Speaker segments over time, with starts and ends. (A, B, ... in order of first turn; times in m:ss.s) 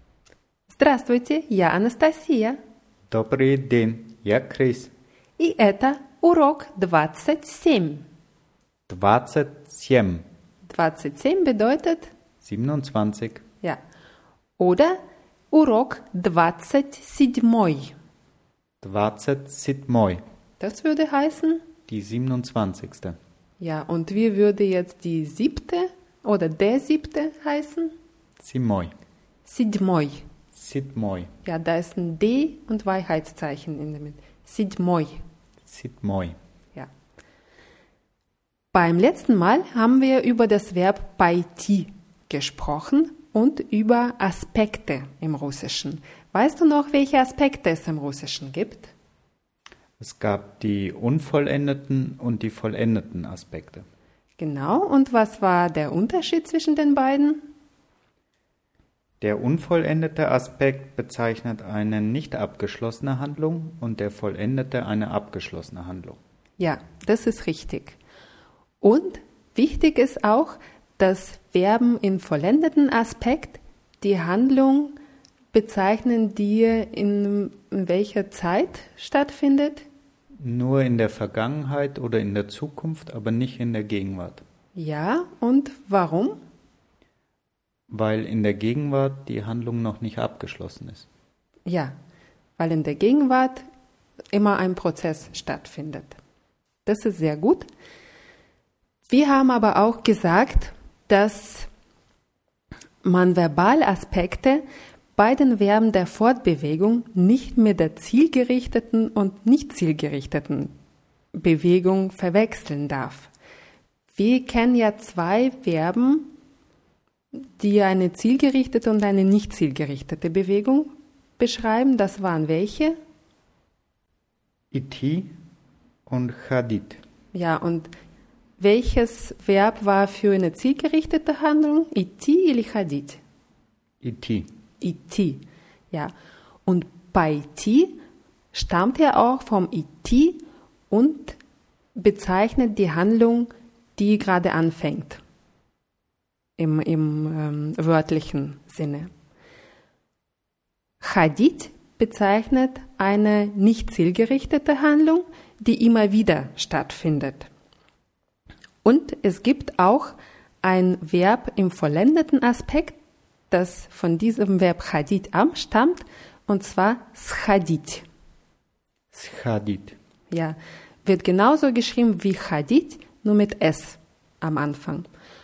0:00.7-0:02.6 A
0:03.1-0:04.9 B
0:05.4-0:08.0 A
0:08.9-0:10.2 B
0:10.6-0:12.1 A
0:12.4-0:13.4 B
0:14.6-0:17.9 A
0:18.8-0:20.2 B
0:20.6-0:21.6 A
0:21.9-0:23.2 B
0:23.6-0:27.9 A
0:28.4-0:28.9 B
0:29.4-0:30.2 A
0:30.5-0:31.3 B
0:31.4-0:35.2 A
0:35.6-0:36.4 B
0:38.7-0:48.9 A
0:50.0-0:53.8 B
0:54.4-0:57.4 A
0:59.2-1:06.2 B
1:06.6-1:08.0 A
1:08.8-1:15.0 A
1:15.5-1:19.8 A
1:20.4-1:24.4 B
1:24.7-1:26.4 A
1:27.9-1:31.1 B
1:31.6-1:31.9 A
1:32.6-1:33.6 A
1:34.3-1:36.2 A
1:36.8-1:37.7 A
1:39.1-1:41.7 A
1:43.0-1:44.6 A
1:45.2-1:50.7 A
1:51.3-1:53.3 A
1:54.1-1:56.3 A
1:57.3-2:03.0 A
2:04.7-2:05.3 B
2:06.1-2:07.0 B
2:07.3-2:07.9 A
2:08.6-2:13.2 A
2:14.0-2:14.5 B
2:14.8-2:16.1 A
2:16.6-2:18.0 A
2:18.5-2:21.4 A
2:22.0-2:25.2 A
2:26.6-2:29.1 A
2:31.0-2:37.5 A
2:38.8-2:43.0 A
2:43.5-2:48.0 A
2:49.1-2:50.0 B
2:50.3-2:55.1 A